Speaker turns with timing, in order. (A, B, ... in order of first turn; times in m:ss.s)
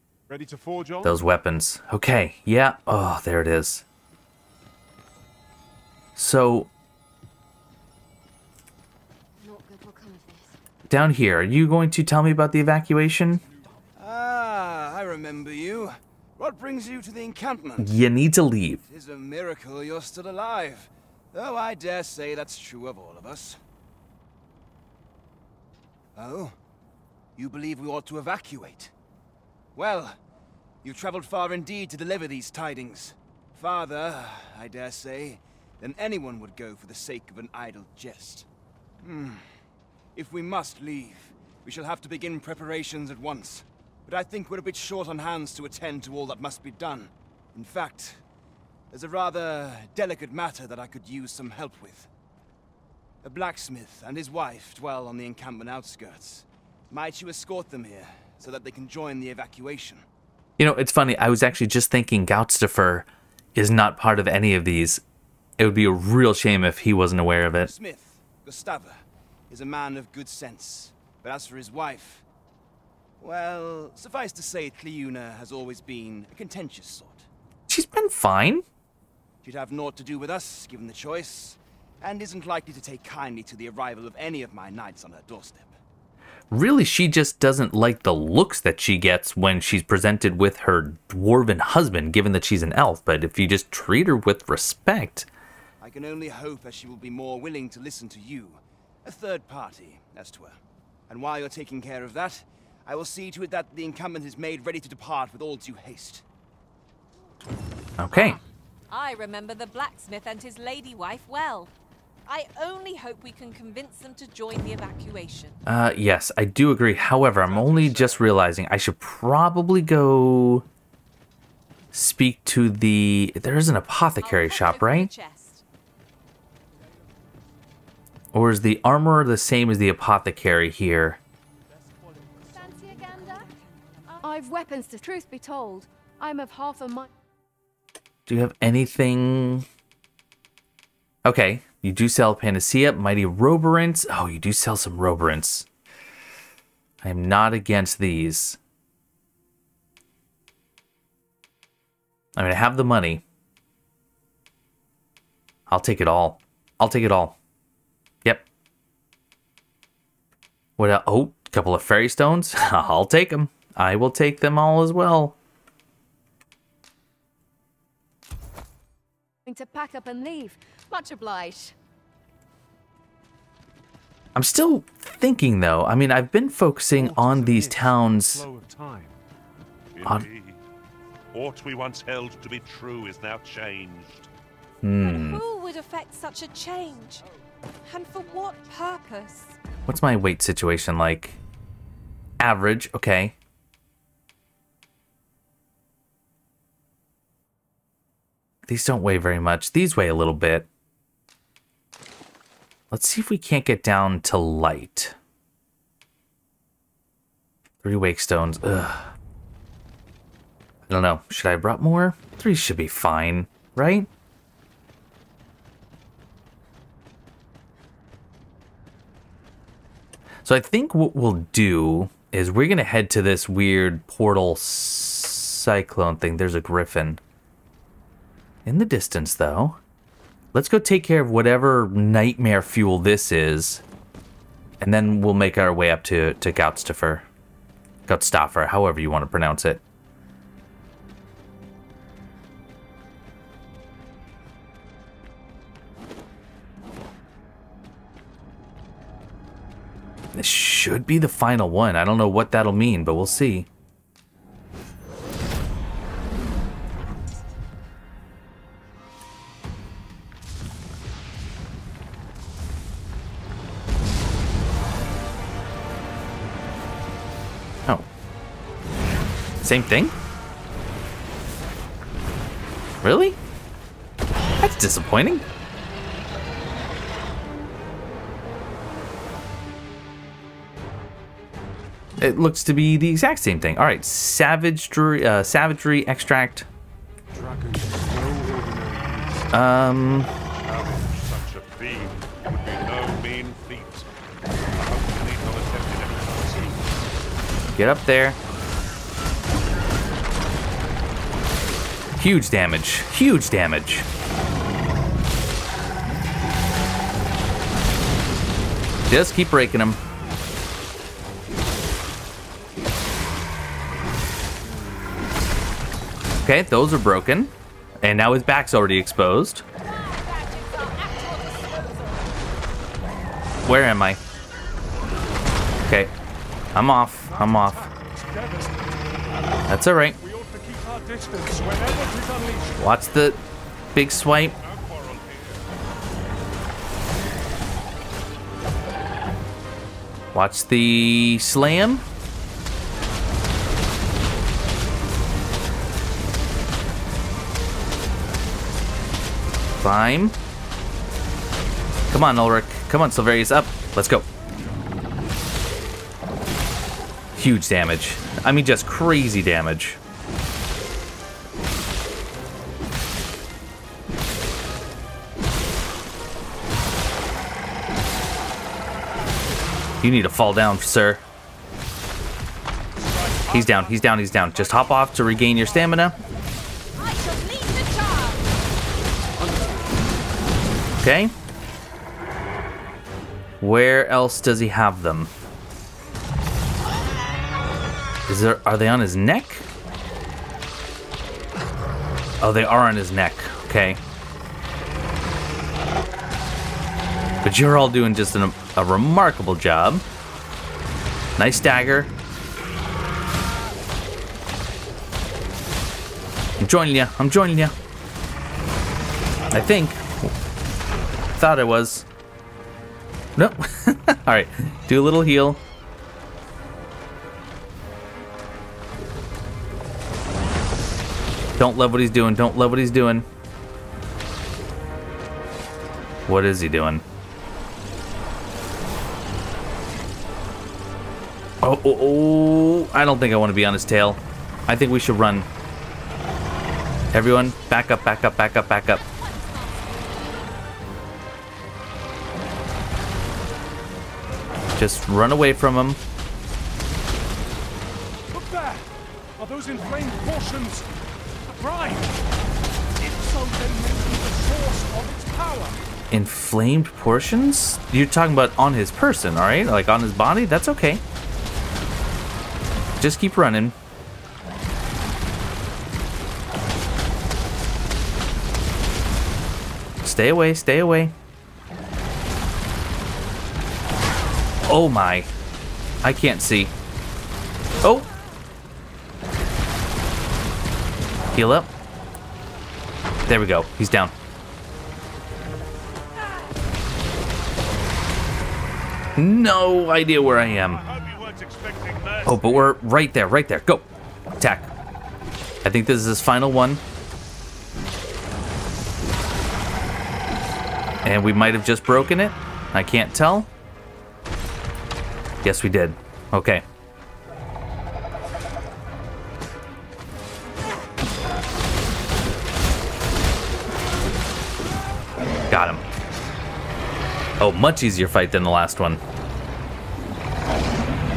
0:00.3-0:01.2 A
0:01.0-0:03.8 B
0:06.2-0:06.7 B
0:09.4-0:10.5 C
0:10.9-0:13.4 B
0:14.0-0:17.9 D
0:17.8-0:18.8 B
0:18.9-0:23.6 D
0:26.2-0:26.6 D
0:27.4-0:28.9 D
0:29.8-0:30.2 D
0:30.8-0:38.5 D
0:39.0-0:39.5 D
0:40.2-0:48.2 D
0:48.9-0:52.1 D
0:53.2-1:00.0 D
1:00.6-1:05.0 B
1:05.6-1:07.7 B
1:07.6-1:09.0 D
1:09.5-1:12.2 D
1:13.2-1:17.3 D
1:17.7-1:18.6 B
1:19.4-1:25.8 D
1:26.5-1:35.3 B
1:35.8-1:46.2 D
1:48.0-1:48.4 B
1:48.9-1:51.7 E
1:52.3-1:55.6 E
1:55.7-2:00.6 B
1:57.2-1:58.3 F
2:01.9-2:05.1 B
2:04.2-2:05.6 E
2:08.3-2:11.2 B
2:12.6-2:13.5 C
2:12.6-2:13.4 E
2:14.2-2:17.1 C
2:18.3-2:19.7 B
2:21.2-2:25.7 B
2:27.0-2:28.6 B
2:32.4-2:33.2 B
2:35.7-2:37.4 B
2:40.8-2:45.4 B
2:49.5-2:51.7 C
2:54.4-2:58.5 B
2:56.9-2:59.2 A
3:00.0-3:00.6 F
3:01.3-3:04.3 F
3:04.8-3:05.4 B
3:05.0-3:07.2 E
3:07.8-3:09.6 E
3:09.9-3:11.4 B
3:12.4-3:13.4 B
3:18.7-3:20.7 B
3:22.9-3:25.2 B
3:27.8-3:29.1 B
3:30.9-3:34.1 B
3:40.4-3:47.2 B
3:48.6-3:49.8 B
3:50.5-3:53.8 B
3:54.8-3:57.3 B
3:58.1-3:59.8 B
4:10.4-4:13.7 B
4:29.6-4:30.1 B
4:33.0-4:33.4 B
4:34.6-4:35.4 B
4:42.2-4:46.7 B
4:47.3-4:49.6 A
4:49.5-4:50.3 B
4:50.4-4:54.1 F
4:54.7-4:56.9 F
4:57.8-4:58.4 B
5:02.2-5:04.1 B
5:09.1-5:10.0 B
5:16.4-5:19.6 B
5:19.8-5:22.3 E
5:23.6-5:24.2 B
5:25.9-5:26.1 B
5:26.8-5:27.8 B
5:27.2-5:29.1 A
5:29.7-5:30.2 B
5:30.2-5:32.9 A
5:32.8-5:33.4 B
5:34.0-5:34.6 B
5:34.6-5:35.6 F
5:40.3-5:42.0 B
5:49.8-5:50.4 B
5:52.1-5:54.2 B
5:57.4-6:00.0 B
6:10.0-6:11.2 B
6:13.0-6:16.0 F
6:13.5-6:16.2 B
6:17.0-6:18.5 E
6:21.0-6:21.3 B
6:23.6-6:25.3 B
6:28.3-6:29.7 B
6:32.4-6:34.0 B
6:37.4-6:40.0 B
6:41.4-6:42.1 B
6:46.6-6:47.8 B
6:49.5-6:50.3 B
6:51.3-6:52.1 B
6:53.4-6:55.6 B
7:01.6-7:03.3 B
7:06.3-7:07.0 B
7:11.6-7:15.5 B
7:17.1-7:19.0 B
7:17.2-7:20.0 E
7:24.8-7:26.0 B
7:28.3-7:30.9 A
7:31.5-7:32.1 A
7:33.0-7:35.8 A
7:36.1-7:41.0 B
7:43.0-7:43.8 B
7:50.0-7:51.1 B
7:54.7-7:55.3 B
7:56.0-7:56.7 B
7:57.8-7:58.1 B
8:01.3-8:01.7 B
8:03.3-8:04.1 B
8:09.2-8:10.8 B
8:10.5-8:12.8 F
8:12.2-8:13.9 B
8:14.4-8:14.7 B
8:15.6-8:16.8 B
8:21.0-8:23.5 B
8:25.4-8:26.6 B
8:35.5-8:35.8 B
8:37.4-8:39.0 B